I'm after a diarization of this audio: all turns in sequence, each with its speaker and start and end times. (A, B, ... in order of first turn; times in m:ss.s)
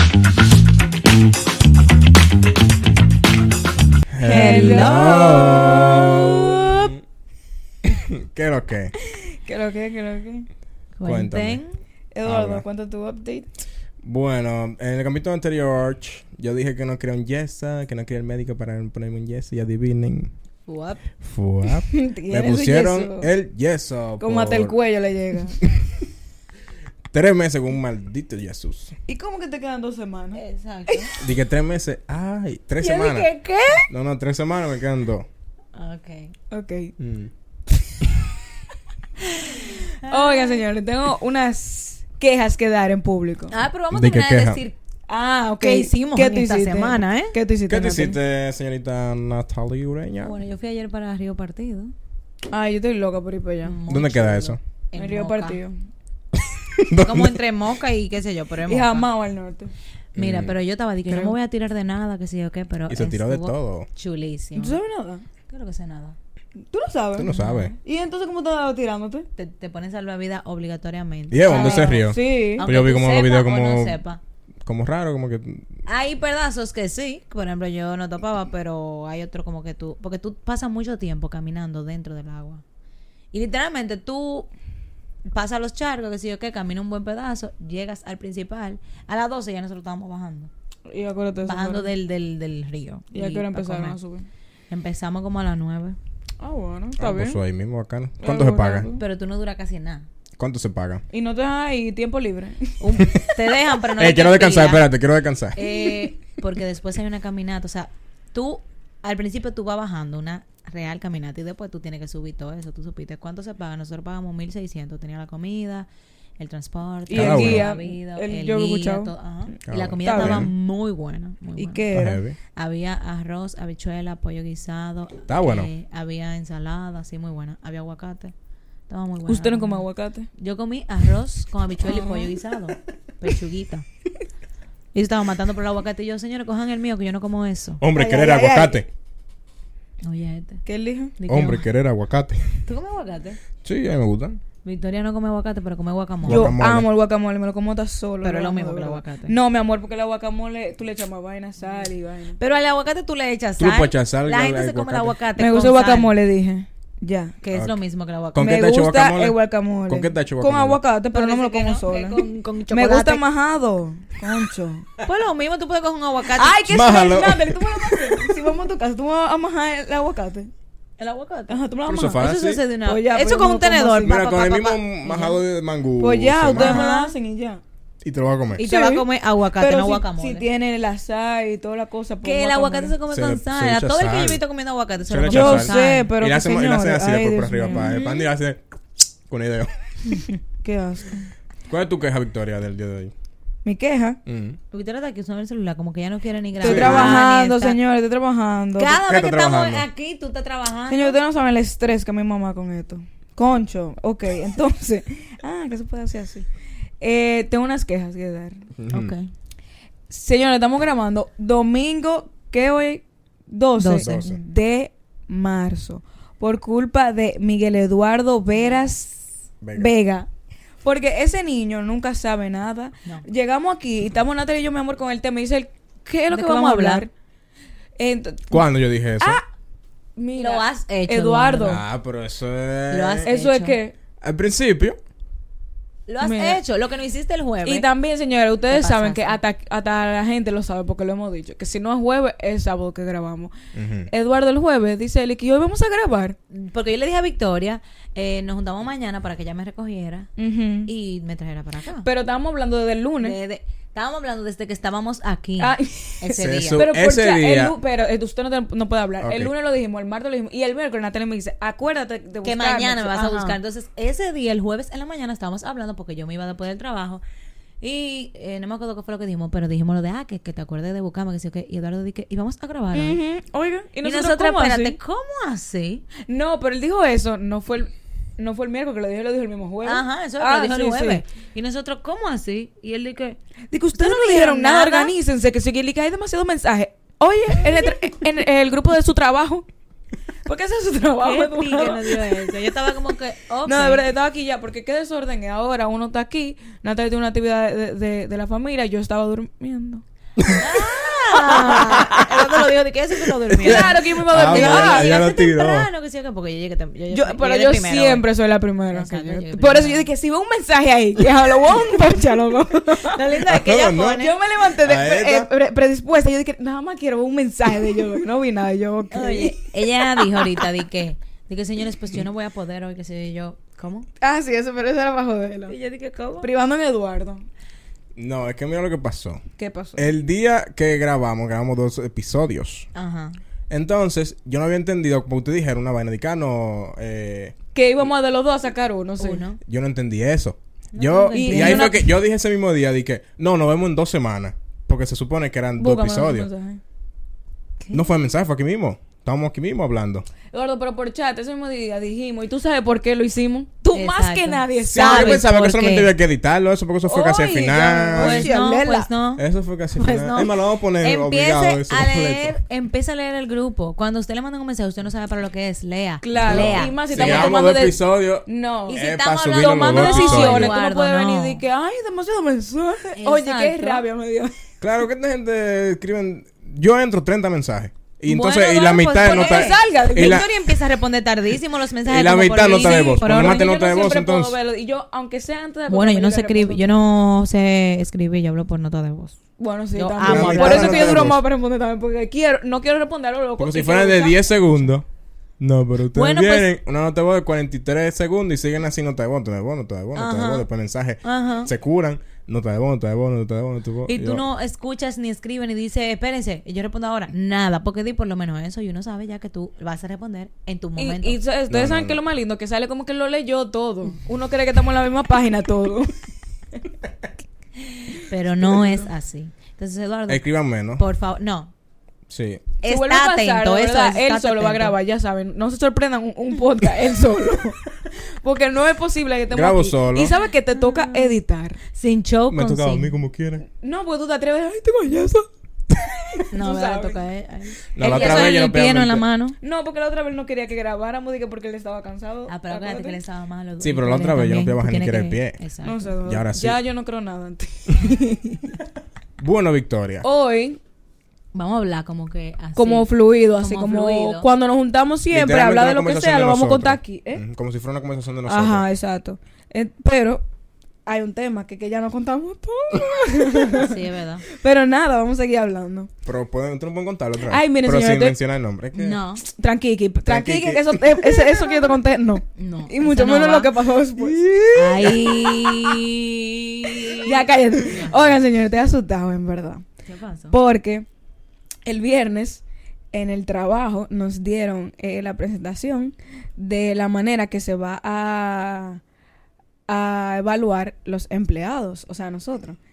0:04.1-0:07.0 A
0:04.2-0:06.2 B
0:04.2-0:06.9 C
0:07.8-0:08.9 A
0:09.1-0:10.5 B
0:11.0-0:11.8 C
0:11.0-0:11.6 A
0:12.1-0:13.5 B
0:12.2-0:12.6 A
0:14.0-0:20.3 A
0:20.7-0:21.0 C
0:21.2-0:24.8 A
0:21.9-0:23.3 B
0:24.2-0:25.6 B
0:27.1-0:29.0 A
0:29.1-0:31.1 B
0:30.3-0:31.2 C
0:31.2-0:33.3 A
0:32.8-0:33.9 C
0:33.9-0:35.3 A
0:35.8-0:36.3 C
0:36.5-0:37.0 B
0:37.0-0:37.3 A
0:39.4-0:40.6 C
0:39.4-0:43.6 B
0:43.5-0:44.8 C
0:43.9-0:44.6 A
0:45.1-0:48.2 B
0:45.6-0:47.4 C
0:47.7-0:50.3 A
0:50.2-0:51.9 C
0:52.5-0:53.8 B
0:53.6-0:55.6 C
0:53.9-0:54.6 A
0:55.0-0:55.8 B
0:56.8-0:57.4 A
0:57.0-0:59.1 C
0:58.7-0:59.7 B
1:00.2-1:00.6 A
1:00.2-1:04.8 C
1:01.1-1:01.3 B
1:02.9-1:03.9 A
1:04.6-1:05.2 B
1:05.5-1:06.2 C
1:06.7-1:09.3 B
1:07.2-1:07.8 A
1:07.3-1:07.7 C
1:09.4-1:14.2 C
1:11.3-1:14.0 A
1:11.4-1:12.7 B
1:14.6-1:15.7 A
1:15.9-1:22.6 C
1:23.3-1:24.5 C
1:25.3-1:30.5 C
1:30.9-1:31.9 B
1:31.4-1:34.0 C
1:33.1-1:34.3 B
1:34.7-1:36.0 C
1:36.4-1:37.4 B
1:37.0-1:38.9 A
1:38.2-1:39.0 B
1:39.0-1:40.1 C
1:40.4-1:41.0 A
1:41.1-1:43.1 B
1:42.8-1:44.9 C
1:44.0-1:45.6 A
1:45.6-1:55.9 C
1:56.4-2:01.9 C
1:57.1-1:59.1 B
1:57.1-1:57.7 A
1:59.7-2:00.5 A
2:00.0-2:00.5 B
2:01.6-2:02.2 B
2:01.9-2:02.4 A
2:02.6-2:08.3 C
2:05.3-2:05.7 A
2:08.9-2:09.8 C
2:09.3-2:10.3 B
2:10.4-2:13.8 C
2:11.8-2:12.3 B
2:14.9-2:17.8 C
2:17.8-2:18.9 A
2:17.9-2:18.8 B
2:20.0-2:20.6 C
2:20.7-2:21.1 B
2:21.2-2:21.7 C
2:21.3-2:22.6 A
2:22.7-2:23.4 C
2:23.6-2:24.4 A
2:24.6-2:26.6 C
2:26.2-2:26.8 A
2:26.3-2:32.4 B
2:28.2-2:29.3 C
2:32.4-2:36.1 C
2:33.6-2:35.1 A
2:35.4-2:37.4 B
2:37.4-2:38.6 C
2:38.3-2:40.8 A
2:38.4-2:44.9 B
2:41.1-2:43.2 C
2:45.0-2:46.6 C
2:46.4-2:50.5 B
2:46.7-2:48.4 A
2:51.0-2:51.6 C
2:51.5-2:52.3 B
2:51.8-2:52.6 A
2:52.1-2:55.4 C
2:52.8-2:54.2 B
2:54.0-2:56.8 A
2:56.0-2:57.6 B
2:56.5-2:57.1 C
2:58.0-2:58.7 A
2:58.6-3:00.4 C
2:58.6-3:03.0 B
3:02.2-3:06.1 C
3:03.1-3:04.4 A
3:05.1-3:08.6 A
3:05.3-3:08.2 B
3:07.7-3:08.1 C
3:09.3-3:10.1 A
3:10.6-3:11.3 B
3:11.7-3:13.1 A
3:13.6-3:14.2 B
3:14.2-3:14.6 A
3:14.7-3:17.8 C
3:16.6-3:17.2 A
3:16.6-3:19.0 B
3:18.8-3:21.2 C
3:19.0-3:19.8 A
3:20.9-3:26.5 B
3:27.0-3:28.7 B
3:28.8-3:29.1 A
3:28.9-3:29.3 C
3:30.1-3:39.2 B
3:33.8-3:34.2 C
3:34.0-3:34.4 A
3:38.6-3:38.9 C
3:39.6-3:39.9 A
3:39.7-3:40.3 B
3:40.8-3:47.1 B
3:46.3-3:47.0 C
3:48.0-3:48.6 B
3:48.5-3:49.4 A
3:49.2-3:49.4 B
3:50.2-3:51.8 B
3:50.4-3:51.8 C
3:51.7-3:53.3 A
3:52.9-3:53.8 C
3:53.2-3:53.9 B
3:54.2-3:55.0 A
3:56.1-3:57.8 C
3:56.2-3:56.6 B
3:57.6-4:03.5 B
3:58.7-3:59.4 C
4:03.7-4:04.1 A
4:04.1-4:06.4 B
4:06.5-4:10.3 C
4:10.4-4:10.9 B
4:10.8-4:12.1 C
4:12.0-4:13.4 B
4:13.2-4:16.8 C
4:15.6-4:23.6 B
4:16.4-4:17.8 A
4:19.2-4:19.5 A
4:22.4-4:27.2 C
4:27.8-4:33.2 C
4:32.9-4:35.0 B
4:34.0-4:36.0 C
4:36.3-4:41.2 B
4:39.8-4:43.4 C
4:43.7-4:49.7 B
4:43.9-4:45.1 C
4:50.5-4:52.6 B
4:51.2-4:54.0 C
4:53.7-5:00.0 B
5:00.4-5:00.7 A
5:00.6-5:08.2 C
5:01.3-5:02.0 B
5:01.7-5:02.5 A
5:03.5-5:05.9 A
5:03.6-5:05.2 B
5:07.1-5:13.2 B
5:08.9-5:10.1 C
5:12.9-5:14.3 C
5:13.4-5:14.3 A
5:14.1-5:20.5 B
5:14.8-5:15.5 A
5:19.1-5:24.1 C
5:24.2-5:25.8 B
5:25.7-5:26.5 C
5:26.4-5:27.5 B
5:28.2-5:29.4 A
5:29.6-5:30.1 B
5:30.0-5:32.9 A
5:32.9-5:33.4 C
5:33.7-5:37.6 A
5:37.7-5:39.4 B
5:39.2-5:39.6 C
5:39.6-5:46.5 A
5:40.9-5:42.1 C
5:41.3-5:42.0 B
5:45.8-5:46.8 B
5:47.8-5:48.1 C
5:47.9-5:50.2 A
5:50.5-5:55.4 B
5:53.9-5:56.1 C
5:54.9-5:58.5 A
5:57.0-5:59.1 B
5:58.2-5:59.4 C
5:59.4-6:02.5 A
5:59.9-6:07.6 C
6:06.2-6:09.0 B
6:06.4-6:10.8 A
6:08.9-6:11.6 C
6:09.5-6:14.5 B
6:13.2-6:14.0 C
6:14.8-6:20.5 A
6:18.2-6:23.6 C
6:19.2-6:20.5 B
6:22.0-6:24.6 A
6:22.6-6:26.9 B
6:25.9-6:29.4 C
6:29.6-6:34.4 B
6:29.9-6:31.3 C
6:30.2-6:31.4 A
6:33.6-6:35.0 A
6:35.6-6:44.4 A
6:36.1-6:36.7 C
6:40.2-6:40.7 C
6:41.2-6:41.7 C
6:44.1-6:51.4 C
6:51.0-6:56.1 B
6:51.7-6:52.2 A
6:57.8-7:00.4 C
6:58.7-6:59.0 B
7:00.3-7:01.0 A
7:01.0-7:01.7 C
7:02.3-7:02.6 A
7:02.8-7:05.0 C
7:02.9-7:07.9 B
7:08.4-7:11.8 B
7:09.5-7:10.4 A
7:10.7-7:11.4 C
7:11.9-7:13.1 C
7:12.5-7:13.6 A
7:13.8-7:15.5 B
7:16.2-7:17.2 B
7:16.5-7:19.6 C
7:17.9-7:19.2 A
7:18.0-7:18.6 B
7:19.6-7:23.2 B
7:22.5-7:26.1 C
7:23.8-7:25.6 A
7:25.8-7:28.8 B
7:26.2-7:26.8 A
7:29.4-7:30.2 A
7:30.2-7:30.8 B
7:31.5-7:34.5 C
7:32.8-7:37.4 B
7:35.3-7:38.9 A
7:38.5-7:40.4 B
7:41.1-7:46.1 B
7:43.6-7:44.4 C
7:46.2-7:49.2 A
7:47.5-7:48.4 B
7:48.9-7:49.4 C
7:49.4-7:56.0 B
7:50.3-7:51.6 A
7:52.6-7:53.7 C
7:54.8-7:58.3 C
7:57.1-7:59.8 B
8:00.1-8:00.6 C
8:00.5-8:01.1 B
8:01.8-8:09.0 B
8:09.9-8:12.8 B